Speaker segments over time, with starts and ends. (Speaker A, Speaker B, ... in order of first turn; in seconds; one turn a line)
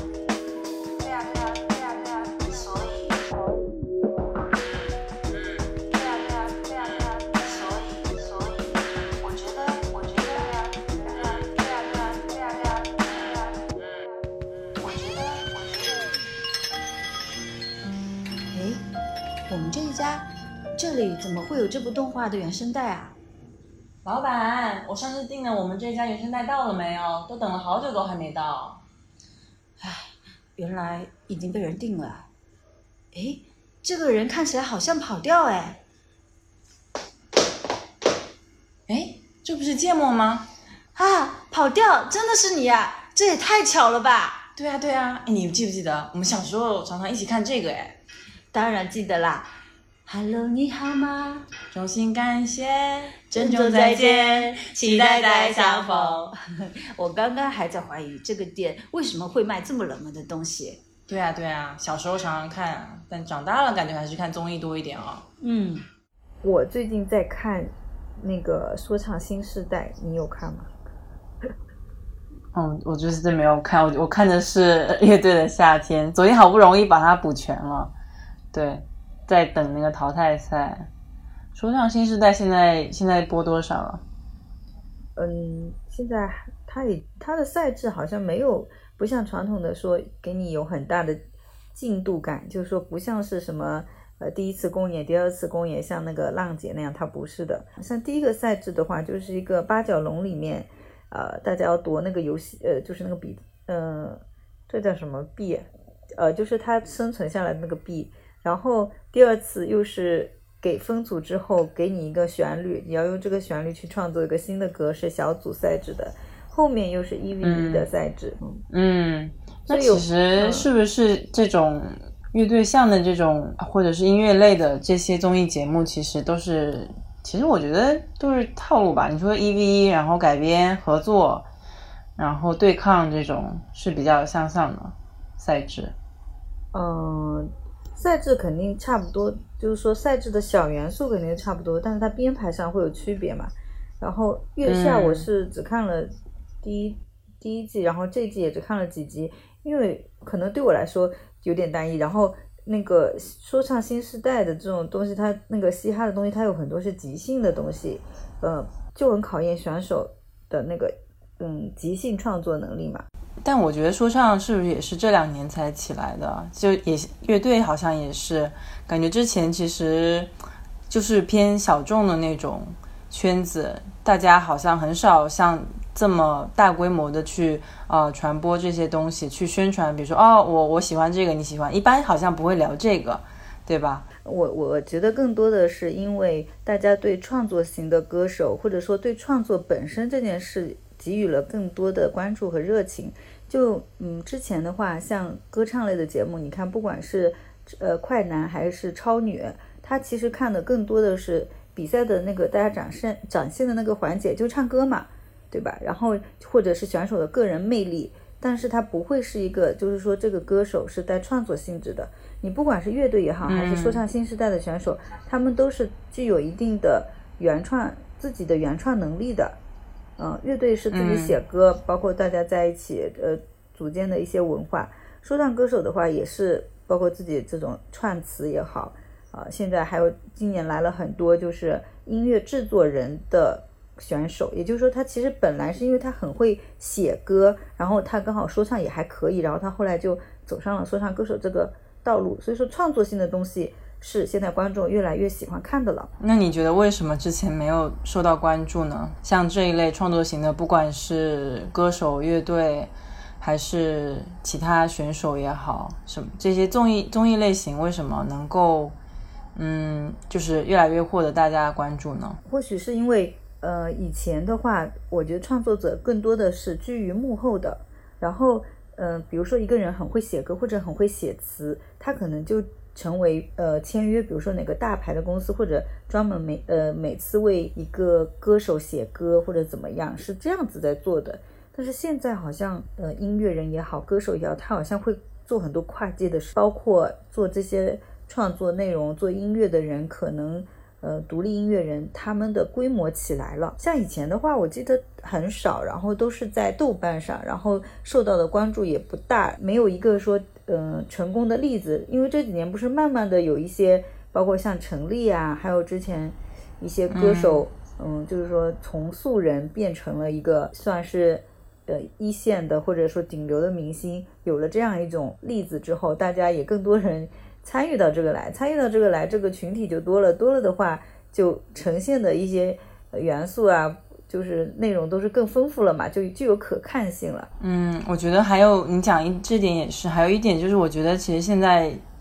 Speaker A: 2.2-3.3
Speaker A: 6.4-8.7
Speaker A: 9.4-12.3
Speaker A: 15.4-16.1
Speaker A: 18.5-18.8
Speaker A: 19.5-23.2
Speaker B: 24.1-28.8
Speaker A: 29.8-32.3
Speaker A: 33.1-35.8
Speaker B: 38.9-40.5
Speaker A: 41.0-44.5
Speaker B: 44.5-48.0
Speaker A: 48.5-49.5
Speaker A: 50.0-51.5
Speaker B: 51.7-56.3
Speaker A: 53.3-60.8
Speaker B: 61.1-65.2
Speaker A: 65.4-65.8
Speaker C: 66.4-70.7
Speaker B: 72.5-77.9
Speaker B: 78.5-80.9
Speaker B: 81.5-84.0
Speaker C: 85.2-91.2
Speaker C: 91.8-118.6
Speaker B: 117.4-117.9
Speaker B: 118.7-131.5
Speaker C: 119.7-120.7
Speaker B: 132.2-135.9
Speaker C: 136.7-146.1
Speaker B: 144.7-145.2
Speaker C: 146.6-163.1
Speaker B: 163.4-170.3
Speaker B: 170.9-184.1
Speaker C: 184.2-219.6
Speaker B: 213.5-214.0
Speaker C: 220.2-246.1
Speaker B: 220.9-221.4
Speaker B: 246.2-258.9
Speaker B: 259.6-262.4
Speaker C: 262.4-327.5
Speaker B: 307.1-307.6
Speaker B: 327.6-332.0